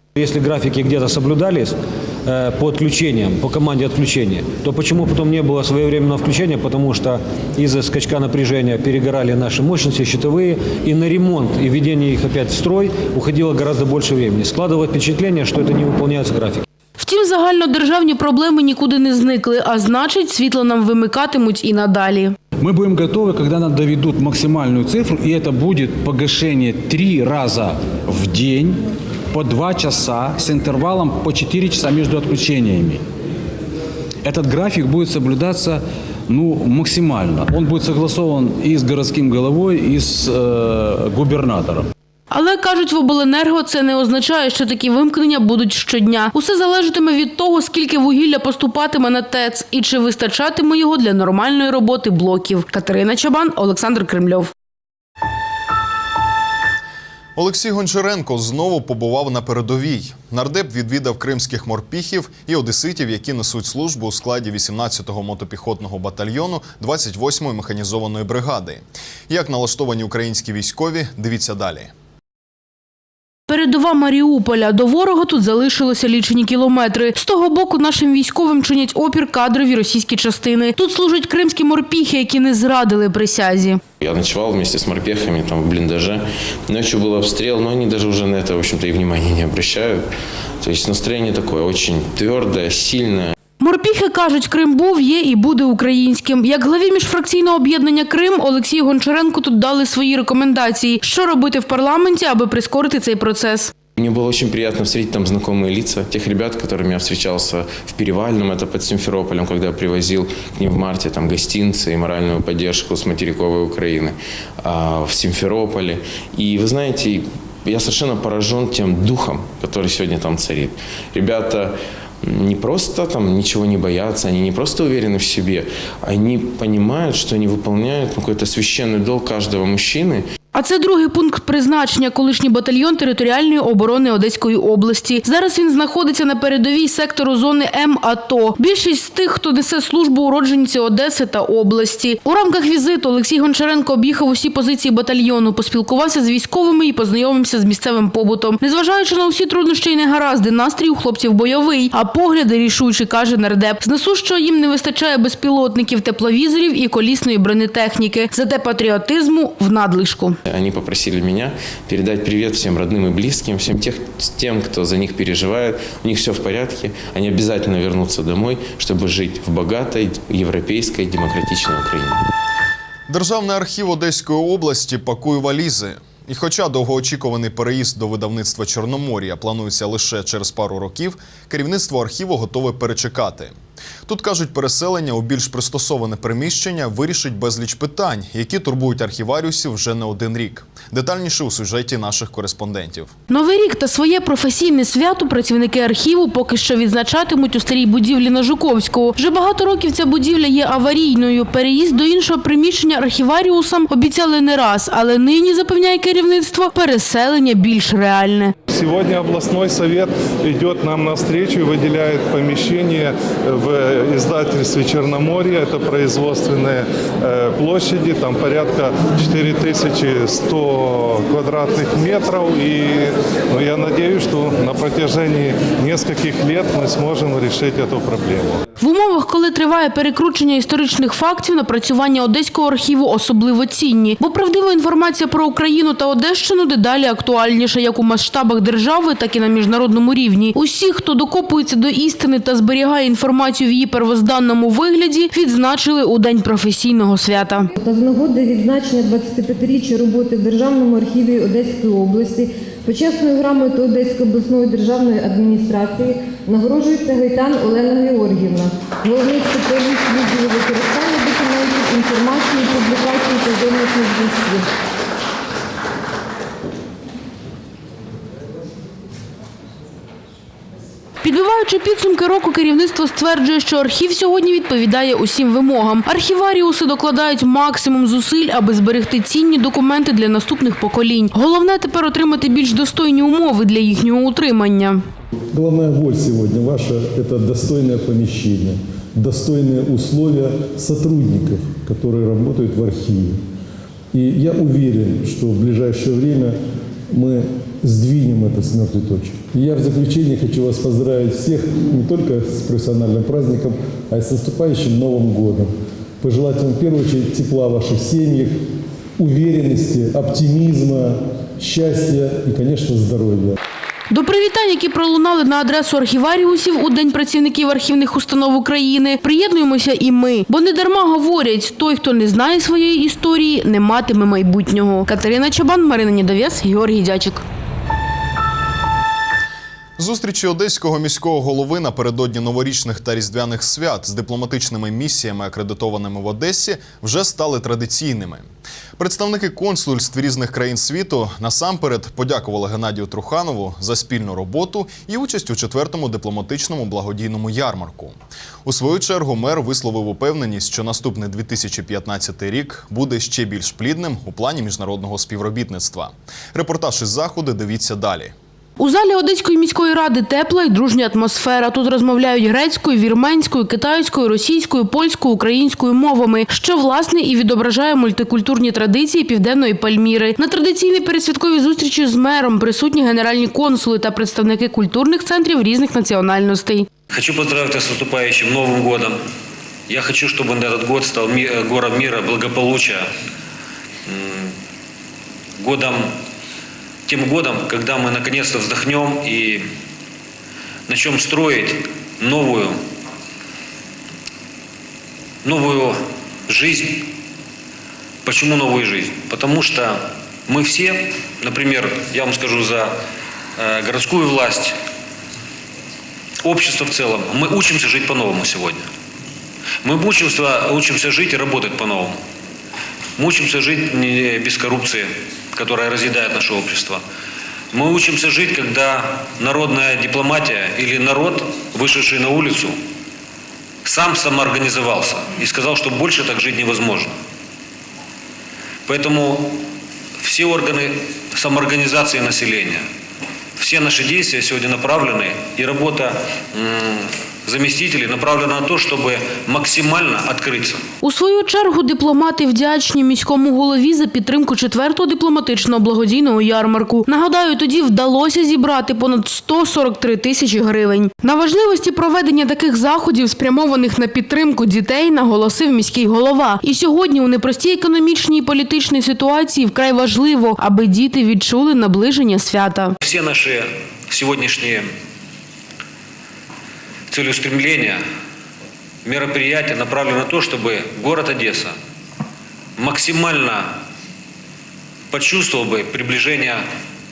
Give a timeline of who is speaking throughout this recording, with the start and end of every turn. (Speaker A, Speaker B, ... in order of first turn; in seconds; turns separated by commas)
Speaker A: 0.2-16.7, Speaker B: 17.0-22.3, Speaker C: 22.6-33.0, Speaker C: 34.2-41.9, Speaker B: 42.3-54.5, Speaker D: 57.4-71.9, Speaker B: 73.5-83.8, Speaker E: 84.0-90.0, Speaker E: 90.6-93.3, Speaker B: 93.6-103.7, Speaker E: 104.0-130.2, Speaker B: 130.5-160.4, Speaker E: 160.5-172.2, Speaker D: 173.1-183.5, Speaker D: 184.1-193.1, Speaker B: 193.3-208.5, Speaker F: 208.7-228.6, Speaker B: 228.8-247.7, Speaker G: 247.8-264.7, Speaker B: 271.2-285.0, Speaker H: 285.5-293.4, Speaker H: 294.1-296.6, Speaker H: 297.1-308.5, Speaker H: 309.2-313.6, Speaker B: 314.1-327.4, Speaker D: 330.0-358.3, Speaker B: 358.8-376.9, Speaker A: 377.1-379.2, Speaker A: 379.9-383.1, Speaker A: 384.1-384.5, Speaker A: 385.6-386.1, Speaker A: 387.1-389.6, Speaker A: 390.9-392.8, Speaker A: 395.4-397.1, Speaker A: 398.2-402.9, Speaker A: 403.6-404.8, Speaker A: 406.4-408.9, Speaker A: 409.8-412.2, Speaker A: 413.2-417.0, Speaker A: 417.7-422.8, Speaker A: 423.9-427.1, Speaker A: 428.9-429.6, Speaker A: 430.2-432.8, Speaker A: 433.6-440.8, Speaker B: 441.0-462.9, Speaker A: 463.0-464.9, Speaker A: 467.1-468.0, Speaker A: 469.1-471.8, Speaker A: 472.8-473.8, Speaker A: 475.1-476.6